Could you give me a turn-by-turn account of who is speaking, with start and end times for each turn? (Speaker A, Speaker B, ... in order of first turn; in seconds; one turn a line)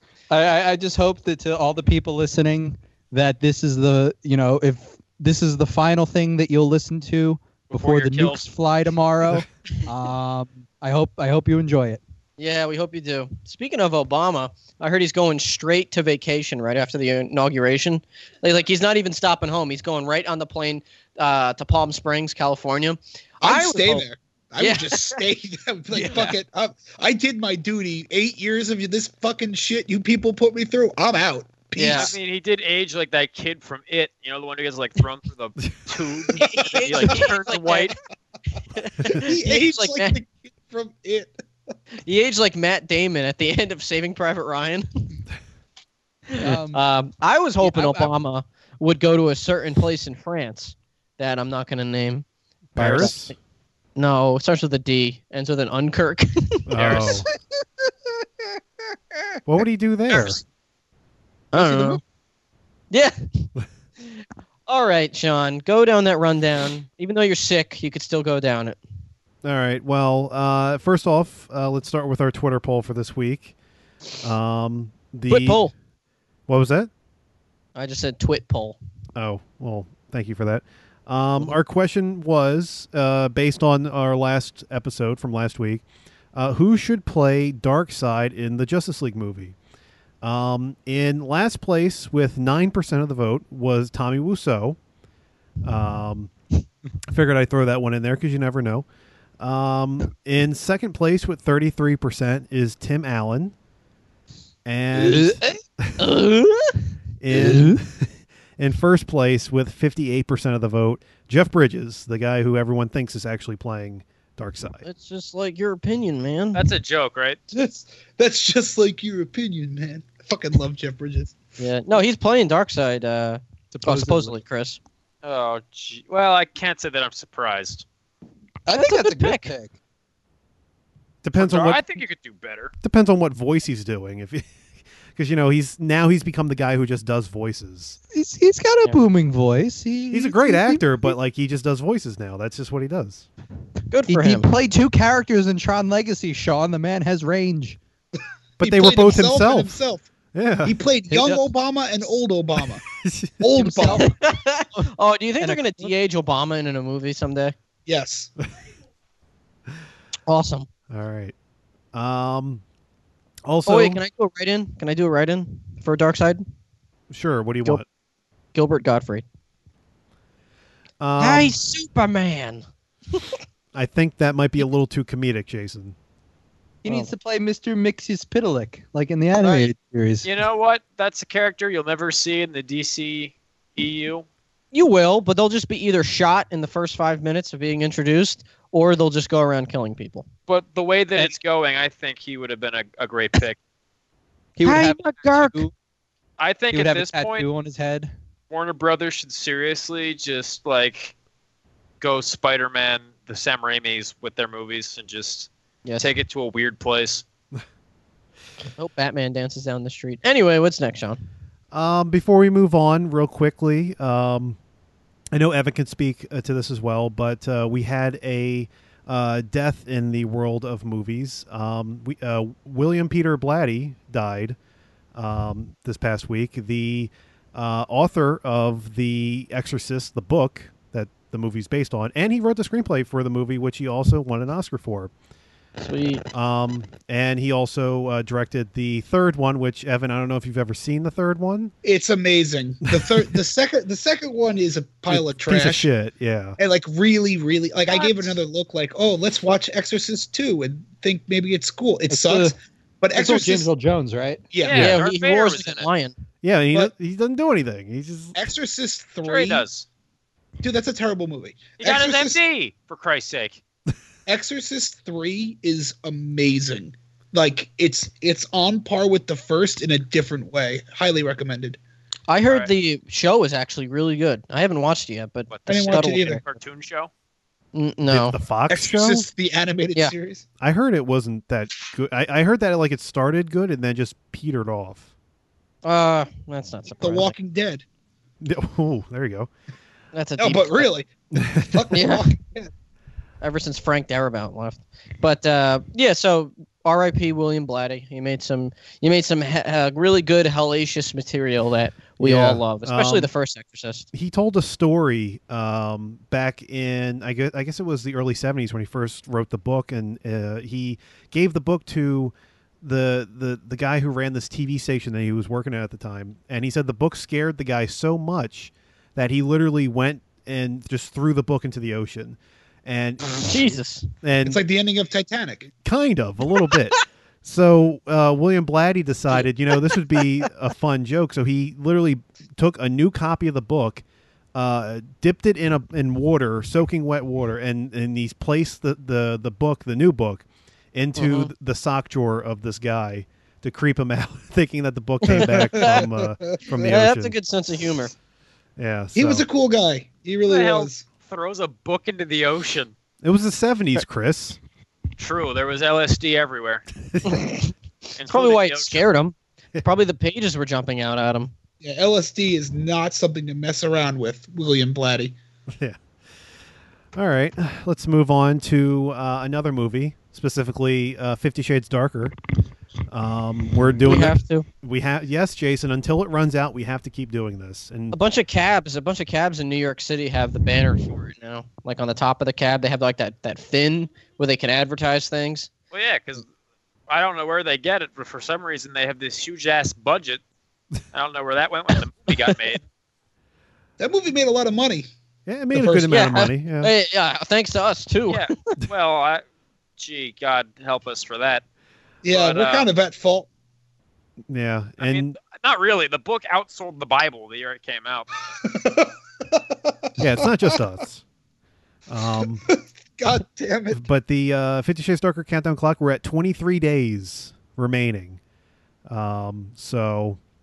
Speaker A: 0.3-12.0
Speaker B: 7.7-8.5
Speaker C: 12.4-24.1
Speaker D: 23.4-32.1
Speaker C: 24.6-25.2
Speaker A: 26.0-26.3
Speaker C: 26.0-26.3
Speaker C: 31.8-32.1
Speaker B: 31.9-37.9
Speaker C: 36.3-38.0
Speaker D: 36.6-37.0
Speaker C: 38.7-40.2
Speaker D: 39.0-41.3
Speaker C: 42.0-44.9
Speaker C: 46.3-52.2
Speaker A: 46.4-46.8
Speaker A: 47.6-48.2
Speaker E: 52.8-53.3
Speaker C: 52.8-53.3
Speaker C: 54.0-57.1
Speaker E: 56.7-57.3
Speaker B: 56.8-57.2
Speaker E: 59.5-60.4
Speaker C: 61.5-62.0
Speaker D: 61.5-62.0
Speaker C: 62.9-63.5
Speaker C: 64.0-68.8
Speaker E: 69.4-73.5
Speaker E: 74.2-75.6
Speaker C: 75.3-75.7
Speaker E: 76.5-76.9
Speaker C: 77.8-78.8
Speaker E: 79.2-85.8
Speaker E: 86.3-89.6
Speaker E: 90.2-94.8
Speaker E: 95.6-96.3
Speaker E: 97.1-98.9
Speaker E: 99.4-103.5
Speaker E: 104.7-105.4
Speaker A: 104.9-105.6
Speaker C: 106.0-106.8
Speaker E: 107.2-114.8
Speaker A: 107.3-107.8
Speaker C: 114.8-116.7
Speaker B: 116.5-117.4
Speaker D: 117.5-121.3
Speaker C: 121.6-124.8
Speaker A: 123.7-124.4
Speaker B: 125.2-127.8
Speaker A: 128.7-129.7
Speaker C: 128.7-129.5
Speaker E: 131.2-131.8
Speaker B: 131.4-132.7
Speaker E: 132.8-134.5
Speaker E: 135.2-138.0
Speaker A: 138.1-140.9
Speaker E: 140.1-143.3
Speaker C: 143.9-144.5
Speaker A: 144.1-147.8
Speaker E: 148.6-149.8
Speaker D: 148.6-150.1
Speaker E: 150.3-150.8
Speaker D: 150.6-152.8
Speaker A: 151.1-151.4
Speaker E: 152.9-153.3
Speaker D: 153.4-154.1
Speaker A: 153.6-154.2
Speaker C: 154.1-157.6
Speaker A: 155.4-155.9
Speaker D: 157.9-158.3
Speaker C: 160.3-160.7
Speaker E: 160.9-161.3
Speaker E: 161.9-162.6
Speaker E: 163.4-164.0
Speaker C: 163.7-166.4
Speaker E: 167.1-167.8
Speaker C: 168.5-169.2
Speaker E: 171.0-171.6
Speaker C: 171.2-173.2
Speaker E: 173.7-176.0
Speaker A: 176.8-180.3
Speaker C: 176.9-177.1
Speaker C: 179.3-179.7
Speaker B: 180.2-184.3
Speaker C: 184.7-190.3
Speaker B: 190.5-193.6
Speaker A: 194.6-195.7
Speaker C: 194.6-195.7
Speaker B: 196.4-197.5
Speaker A: 196.7-198.1
Speaker B: 198.5-201.1
Speaker B: 202.0-207.2
Speaker C: 208.8-211.2
Speaker E: 211.7-214.6
Speaker E: 215.3-224.6
Speaker E: 225.1-235.1
Speaker C: 235.8-236.2
Speaker E: 236.3-241.7
Speaker D: 241.8-245.9
Speaker E: 242.9-243.3
Speaker E: 245.1-246.6
Speaker D: 246.6-253.7
Speaker C: 247.9-248.3
Speaker A: 252.1-252.6
Speaker A: 253.1-254.5
Speaker D: 254.5-255.0
Speaker B: 254.6-255.9
Speaker C: 254.7-256.1
Speaker E: 256.4-258.4
Speaker D: 258.4-259.6
Speaker B: 259.2-259.9
Speaker D: 260.6-262.4
Speaker B: 261.8-263.6
Speaker D: 264.3-271.8
Speaker C: 272.3-276.4
Speaker B: 275.5-277.1
Speaker D: 275.7-276.4
Speaker C: 277.7-278.4
Speaker E: 278.1-279.3
Speaker D: 278.7-280.4
Speaker E: 280.6-285.1
Speaker C: 285.9-287.4
Speaker D: 287.0-287.8
Speaker E: 288.4-289.5
Speaker C: 290.1-290.9
Speaker D: 290.4-292.7
Speaker E: 291.4-291.9
Speaker C: 291.9-292.3
Speaker C: 293.4-304.1
Speaker E: 302.2-303.3
Speaker E: 304.1-323.7
Speaker C: 323.4-324.1
Speaker E: 324.2-324.6
Speaker D: 324.4-325.7
Speaker E: 325.8-334.0
Speaker E: 334.5-347.4
Speaker C: 341.2-341.5
Speaker C: 345.2-346.1
Speaker D: 345.3-346.8
Speaker C: 346.8-348.1
Speaker E: 348.8-349.5
Speaker D: 349.1-351.0
Speaker B: 350.4-352.9
Speaker E: 353.2-354.6
Speaker B: 355.2-356.9
Speaker C: 357.2-361.5
Speaker B: 358.2-359.1
Speaker D: 361.8-365.4
Speaker E: 365.7-366.0
Speaker E: 367.1-372.4
Speaker E: 373.1-378.2
Speaker C: 374.1-374.7
Speaker C: 378.1-385.7
Speaker B: 385.9-386.5
Speaker B: 387.1-390.4
Speaker B: 391.1-392.8
Speaker C: 392.3-392.6
Speaker D: 394.0-395.1
Speaker E: 395.5-396.9
Speaker D: 395.7-396.4
Speaker C: 396.1-398.5
Speaker B: 398.3-399.4
Speaker B: 400.0-401.6
Speaker D: 402.2-403.5
Speaker B: 402.3-402.9
Speaker E: 404.5-405.4
Speaker B: 405.0-408.3
Speaker D: 408.6-410.7
Speaker E: 410.2-411.2
Speaker E: 412.1-412.6
Speaker D: 412.6-414.0
Speaker E: 413.9-418.4
Speaker E: 419.1-420.4